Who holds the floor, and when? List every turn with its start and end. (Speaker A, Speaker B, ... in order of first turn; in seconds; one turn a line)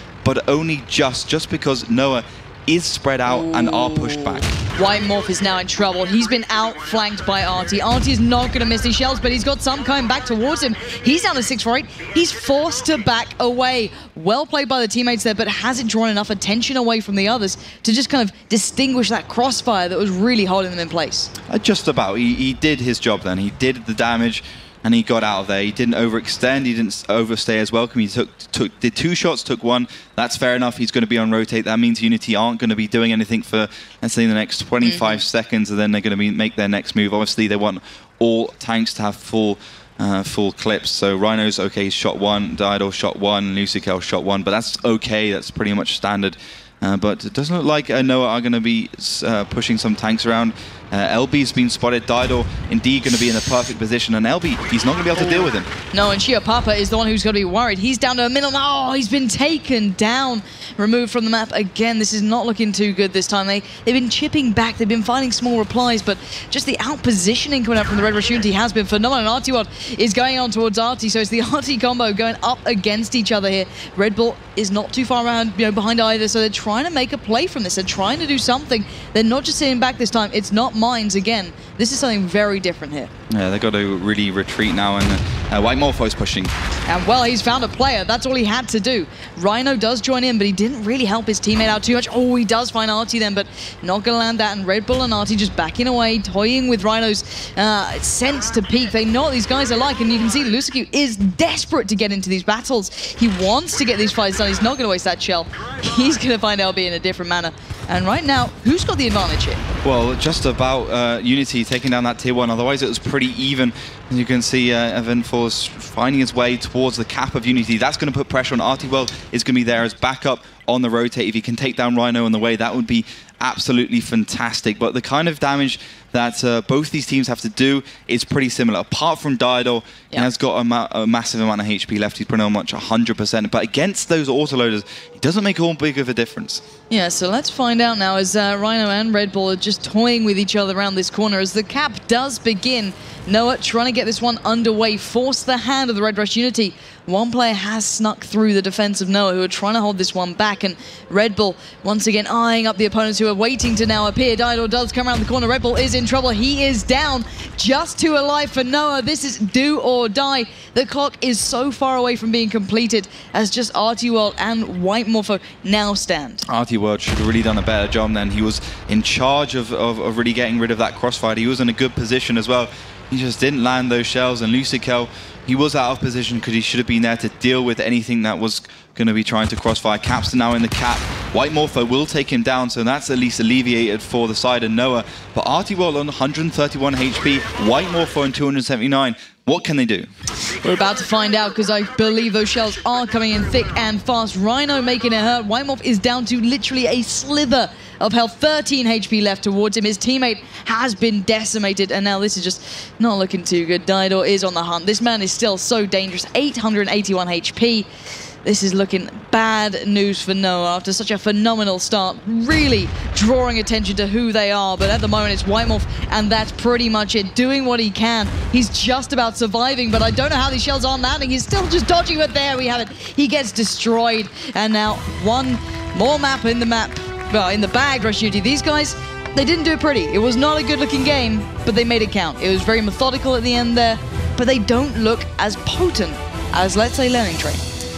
Speaker A: 0.2-4.5
Speaker B: 3.3-21.3
Speaker A: 21.5-55.7
Speaker B: 34.8-35.2
Speaker B: 55.9-83.1
Speaker A: 83.3-86.5
Speaker B: 86.9-109.6
Speaker A: 109.8-136.6
Speaker B: 136.9-166.4
Speaker A: 166.5-190.1
Speaker B: 190.6-207.9
Speaker B: 208.4-237.6